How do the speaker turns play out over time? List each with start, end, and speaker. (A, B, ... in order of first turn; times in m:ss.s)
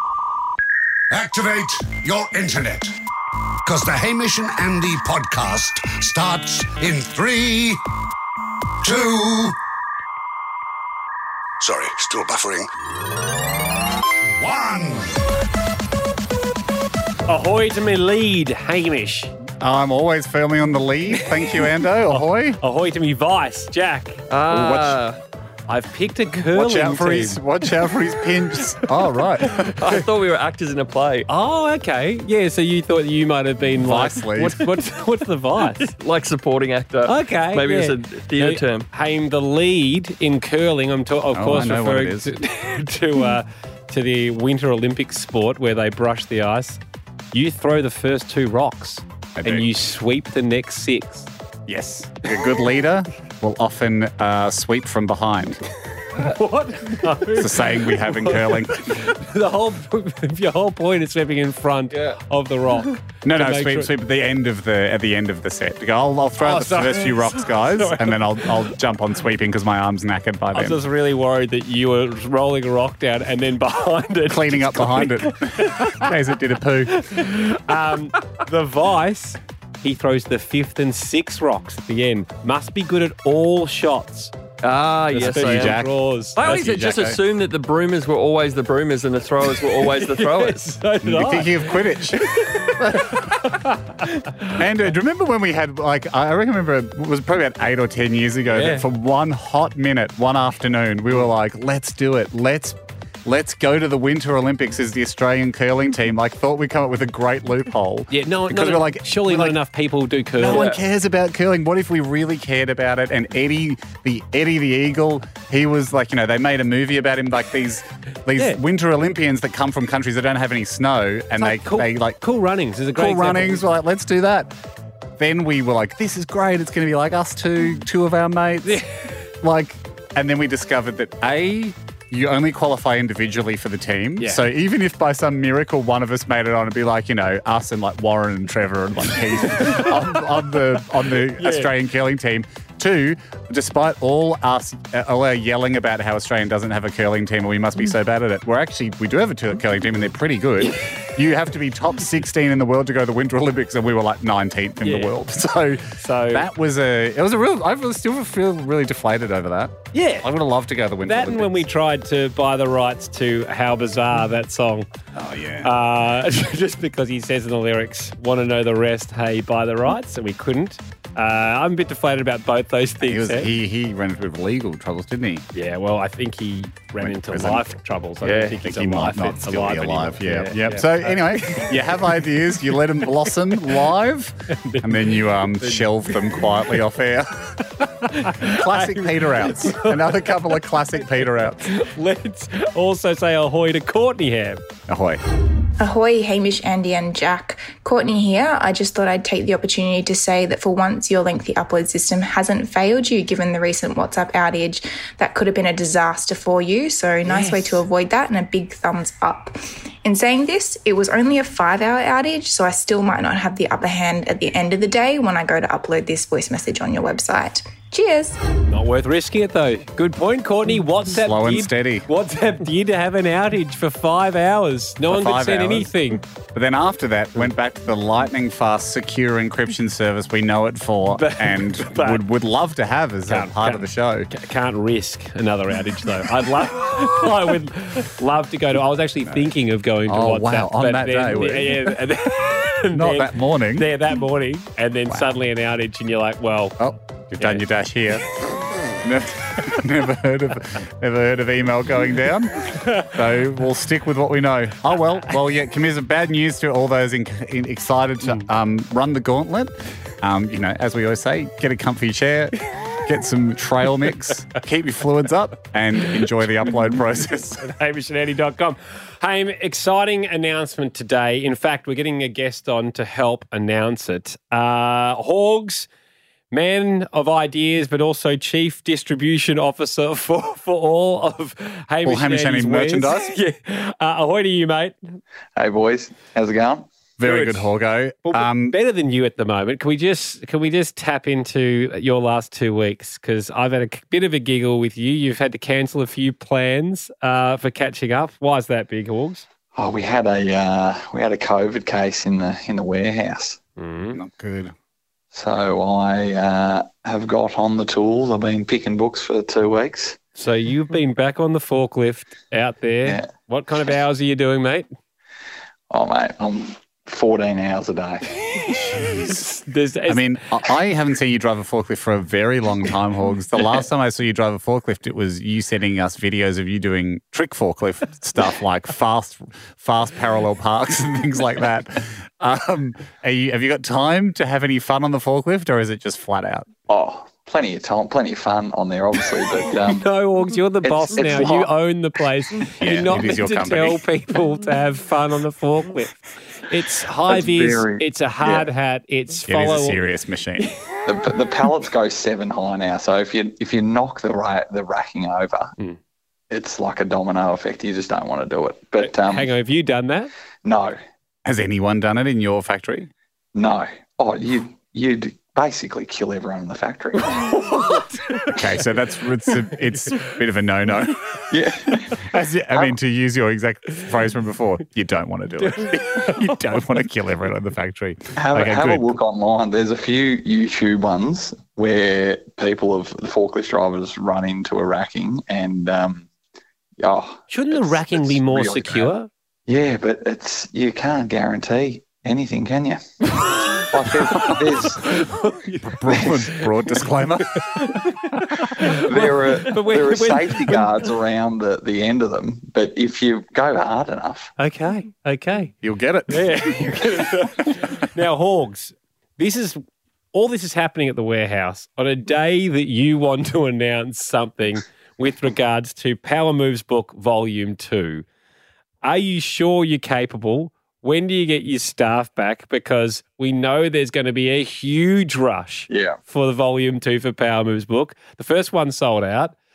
0:01.1-0:03.0 A
0:03.6-0:07.8 A
0:08.8-0:09.6 A
0:11.6-0:12.7 A
0:14.4-0:15.2 A
0:17.3-0:19.3 B
0:19.6-0:22.6 C
0:21.1-0:24.3 B
0:24.3-0:25.2 D
0:25.7-0:27.4 B
0:26.5-0:29.9 C
0:29.6-0:31.2 D
0:31.3-0:35.9 B
0:33.8-0:34.8 C
0:35.8-0:38.8 D
0:37.0-0:46.8 B
0:41.3-0:42.4 C
0:47.3-0:51.3 B
0:49.4-0:49.7 C
0:51.7-0:55.6 C
0:56.1-1:03.9 B
0:57.3-0:59.1 C
1:03.2-1:10.8 C
1:06.4-1:08.7 B
1:10.5-1:16.1 B
1:14.3-1:17.3 C
1:16.9-1:24.3 B
1:24.6-1:25.8 D
1:25.1-1:26.4 B
1:25.4-1:27.2 C
1:26.4-1:30.8 D
1:29.8-1:34.6 B
1:31.0-1:33.4 C
1:34.5-1:49.6 C
1:38.5-1:38.8 B
1:48.1-1:50.7 B
1:50.4-2:02.2 C
2:01.4-2:03.6 B
2:02.9-2:04.5 C
2:05.2-2:08.8 C
2:08.6-2:09.1 B
2:09.4-2:41.6 C
2:14.2-2:14.4 B
2:19.5-2:20.0 B
2:21.3-2:21.7 B
2:30.6-2:30.9 B
2:34.8-2:35.1 B
2:36.0-2:36.5 B
2:39.9-2:40.3 B
2:41.0-2:44.9 B
2:45.1-2:45.7 C
2:45.6-2:53.5 B
2:53.0-2:55.4 C
2:55.5-3:02.2 B
2:57.0-2:57.7 C
2:58.2-3:11.7 C
3:04.5-3:06.5 B
3:08.0-3:10.6 B
3:11.6-3:14.6 B
3:14.9-3:15.2 C
3:15.8-3:38.4 E
3:27.2-3:27.7 B
3:38.7-3:46.2 B
3:41.1-3:42.1 C
3:45.1-3:45.9 C
3:46.5-3:54.3 C
3:51.1-3:52.2 B
3:53.3-4:06.8 B
3:59.2-3:59.5 C
4:00.1-4:02.0 C
4:02.9-4:03.9 C
4:06.8-4:08.3 C
4:09.0-4:27.7 C
4:12.8-4:13.1 B
4:27.6-4:35.9 B
4:36.5-4:45.0 B
4:42.0-4:43.3 C
4:45.6-4:46.9 F
4:47.2-4:48.8 C
4:47.2-4:47.7 B
4:48.3-4:59.4 B
4:59.7-5:03.6 F
5:03.8-5:04.2 B
5:04.1-5:04.7 C
5:05.3-5:10.2 F
5:10.4-5:14.9 B
5:15.9-5:18.6 F
5:18.9-5:19.4 C
5:18.9-5:20.4 B
5:20.1-5:36.7 C
5:36.9-5:40.0 F
5:39.9-5:50.0 B
5:40.8-5:41.7 F
5:42.8-5:44.0 C
5:47.3-5:48.7 F
5:49.5-5:50.7 C
5:51.0-5:55.7 F
5:56.5-5:59.5 F
5:59.0-6:00.3 B
6:00.6-6:01.0 F
6:01.4-6:03.1 C
6:03.5-6:07.7 F
6:07.3-6:08.6 B
6:08.5-6:11.2 C
6:10.0-6:10.3 B
6:11.5-6:12.9 F
6:12.2-6:19.2 C
6:15.6-6:16.6 B
6:18.4-6:26.3 F
6:27.0-6:29.1 F
6:27.5-6:29.3 B
6:29.7-6:35.1 F
6:33.5-6:33.8 B
6:34.4-6:36.7 B
6:35.8-6:38.1 C
6:37.6-6:40.9 B
6:38.8-6:44.5 F
6:44.6-6:45.7 B
6:45.8-6:47.0 C
6:46.3-6:49.8 B
6:50.3-6:58.2 B
6:59.0-7:09.5 B
7:05.9-7:06.2 F